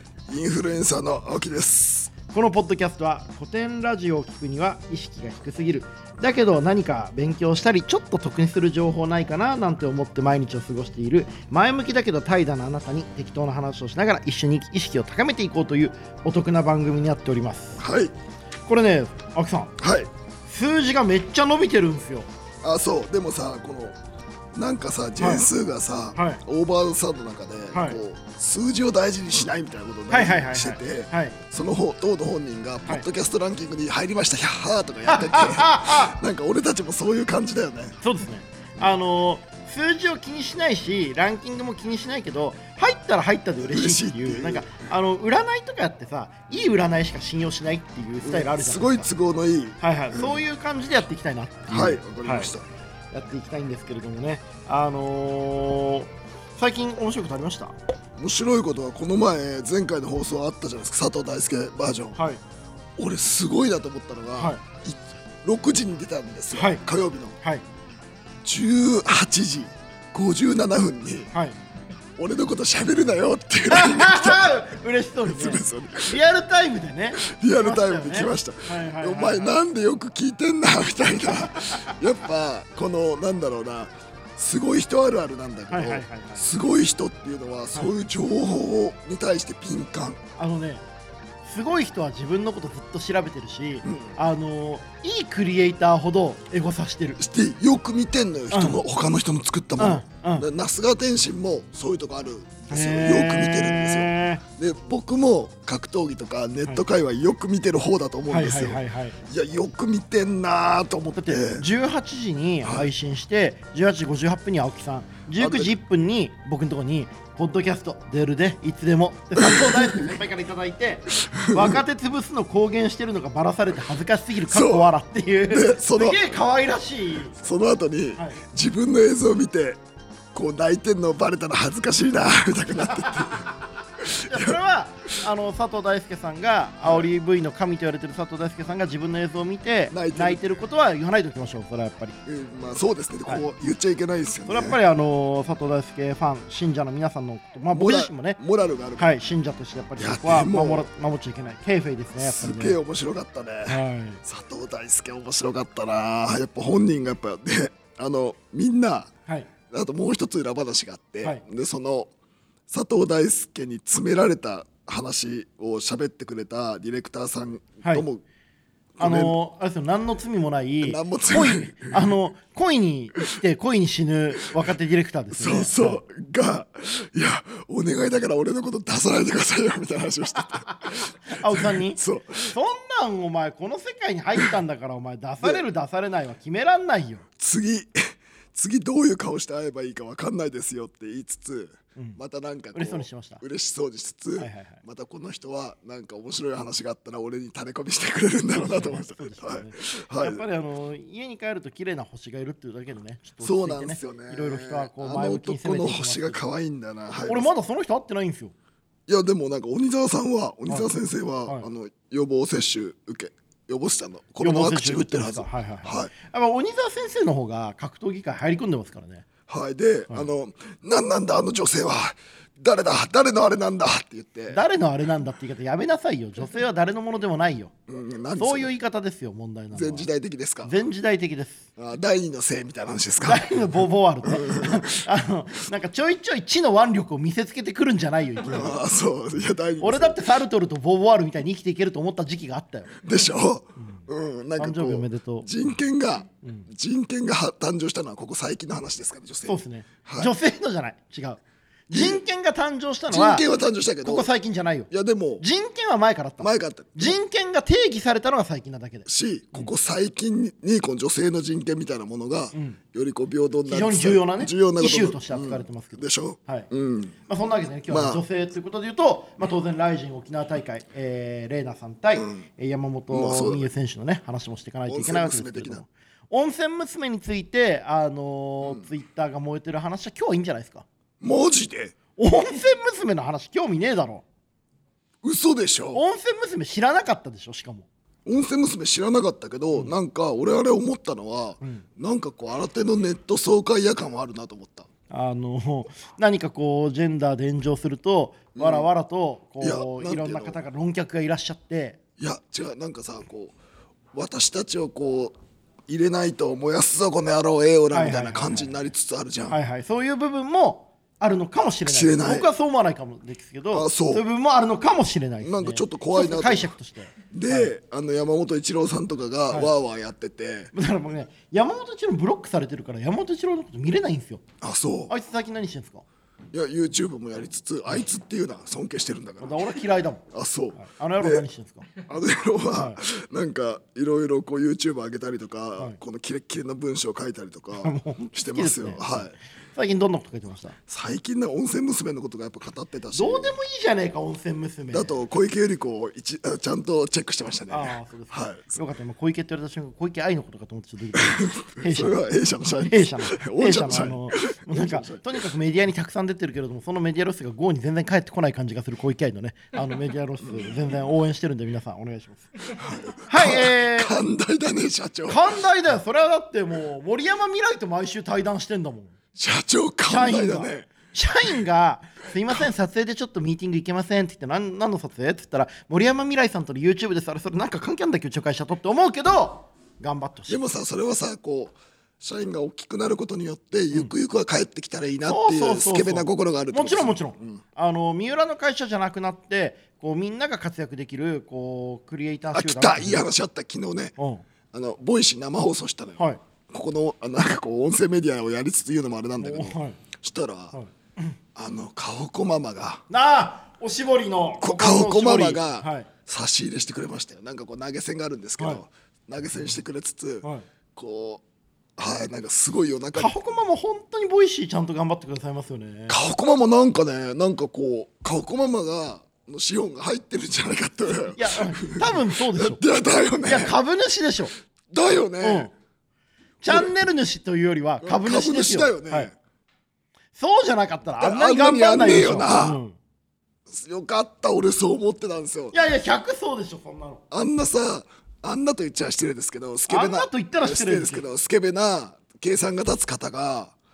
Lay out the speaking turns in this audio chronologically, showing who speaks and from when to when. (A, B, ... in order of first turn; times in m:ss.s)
0:00.3-0:02.1 A
0:02.3-0:17.8 B
0:17.8-0:18.1 A
0:18.6-0:19.7 B
0:19.8-0:20.1 A
0:20.5-0:22.3 B
0:22.6-0:24.0 A
0:24.5-0:38.0 A
0:25.2-0:25.4 B
0:26.2-0:26.4 B
0:27.7-0:28.0 B
0:30.1-0:31.4 B
0:35.1-0:36.2 B
0:38.0-0:49.1 B
0:43.6-0:44.7 A
0:48.2-0:50.4 A
0:49.8-0:52.5 B
0:51.7-0:52.6 A
0:53.1-0:57.8 B
0:58.2-1:02.2 A
1:02.1-1:02.4 B
1:03.0-1:07.4 A
1:04.3-1:04.6 B
1:06.5-1:06.8 B
1:08.4-1:11.3 A
1:12.2-1:14.6 A
1:13.7-1:19.6 B
1:15.2-1:16.2 A
1:17.2-1:30.2 A
1:21.4-1:21.9 B
1:25.7-1:26.4 B
1:30.4-1:30.8 B
1:31.4-1:37.2 B
1:33.8-1:34.2 A
1:37.2-1:51.6 A
1:38.5-1:38.8 B
1:39.8-1:40.5 B
1:42.7-1:44.4 B
1:48.3-1:49.2 B
1:51.1-2:07.4 B
1:52.6-1:52.9 A
1:55.4-1:55.7 A
1:59.4-2:00.2 A
2:01.2-2:01.8 A
2:04.5-2:04.9 A
2:05.5-2:06.2 A
2:07.3-2:09.8 A
2:08.2-2:08.4 B
2:10.3-2:13.5 A
2:14.0-2:14.6 A
2:14.3-2:22.2 B
2:19.9-2:20.4 A
2:22.2-2:24.8 A
2:24.5-2:28.4 B
2:27.7-2:29.1 A
2:29.0-2:32.8 B
2:30.0-2:30.9 A
2:32.2-2:39.1 A
2:33.7-2:34.2 B
2:39.7-2:42.1 A
2:42.7-2:48.2 A
2:49.0-2:49.3 A
2:49.0-2:56.0 B
2:50.8-2:52.1 A
2:55.3-3:02.5 A
3:00.6-3:07.2 B
3:07.4-3:20.4 A
3:12.7-3:13.4 B
3:14.4-3:14.8 B
3:18.5-3:26.4 B
3:23.4-3:27.5 A
3:27.2-3:28.5 B
3:29.1-3:36.1 A
3:34.4-3:39.2 B
3:39.5-3:44.6 A
3:44.5-3:47.7 B
3:47.9-3:48.7 A
3:48.4-3:50.1 B
3:49.7-3:50.7 A
3:50.6-3:51.7 B
3:51.8-3:53.6 A
3:53.2-3:58.8 B
3:54.2-3:54.9 A
3:58.4-4:00.2 A
3:59.8-4:03.0 B
4:03.0-4:10.3 A
4:03.8-4:04.0 B
4:04.6-4:05.5 B
4:06.4-4:06.7 B
4:09.4-4:13.4 B
4:11.9-4:12.2 A
4:13.1-4:14.3 A
4:14.0-4:19.7 B
4:14.9-4:15.4 A
4:16.4-4:17.2 A
4:19.0-4:27.2 A
4:22.5-4:22.8 B
4:23.6-4:26.7 B
4:27.3-4:40.8 B
4:27.9-4:28.2 A
4:33.1-4:33.7 A
4:34.9-4:35.8 A
4:41.2-4:41.9 A
4:42.2-4:44.2 B
4:45.2-4:46.0 A
4:45.9-4:47.9 B
4:48.2-4:54.9 A
4:51.6-4:51.9 B
4:55.1-5:02.0 B
4:58.6-4:58.9 A
4:59.6-5:00.6 A
5:02.2-5:03.6 A
5:04.1-5:05.3 A
5:05.9-5:09.6 A
5:07.9-5:08.7 B
5:09.5-5:17.7 B
5:11.8-5:12.5 A
5:13.7-5:14.2 A
5:15.4-5:16.7 A
5:17.3-5:20.7 A
5:20.7-5:24.4 B
5:24.6-5:25.1 A
5:25.1-5:26.0 B
5:26.5-5:29.7 A
5:29.4-5:30.2 B
5:30.3-5:31.4 A
5:30.7-5:31.9 B
5:32.0-5:39.3 A
5:32.7-5:33.0 B
5:37.8-5:40.8 B
5:40.9-5:43.6 A
5:43.1-5:45.2 B
5:44.9-5:48.8 A
5:47.7-5:52.2 B
5:51.2-5:55.4 A
5:52.8-6:02.5 B
6:02.8-6:05.6 A
6:03.3-6:04.2 B
6:05.3-6:09.2 B
6:09.3-6:10.9 A
6:10.1-6:20.6 B
6:20.5-6:27.6 A
6:25.3-6:33.2 B
6:32.5-6:34.1 A
6:34.2-6:34.4 B
6:34.7-6:40.8 A
6:39.4-6:40.0 B
6:40.7-6:41.4 B
6:41.5-6:43.0 A
6:43.1-6:46.1 B
6:44.6-6:51.4 A
6:48.6-6:48.8 B
6:52.0-6:53.4 A
6:53.1-6:56.2 B
6:56.1-7:03.8 A
7:01.3-7:02.8 B
7:03.4-7:04.5 B
7:04.9-7:05.7 A
7:05.4-7:05.7 B
7:06.6-7:09.3 B
7:08.0-7:09.3 A
7:10.3-7:13.0 B
7:11.2-7:12.8 A
7:13.7-7:15.8 A
7:15.7-7:17.2 B
7:17.3-7:23.7 A
7:19.9-7:21.2 B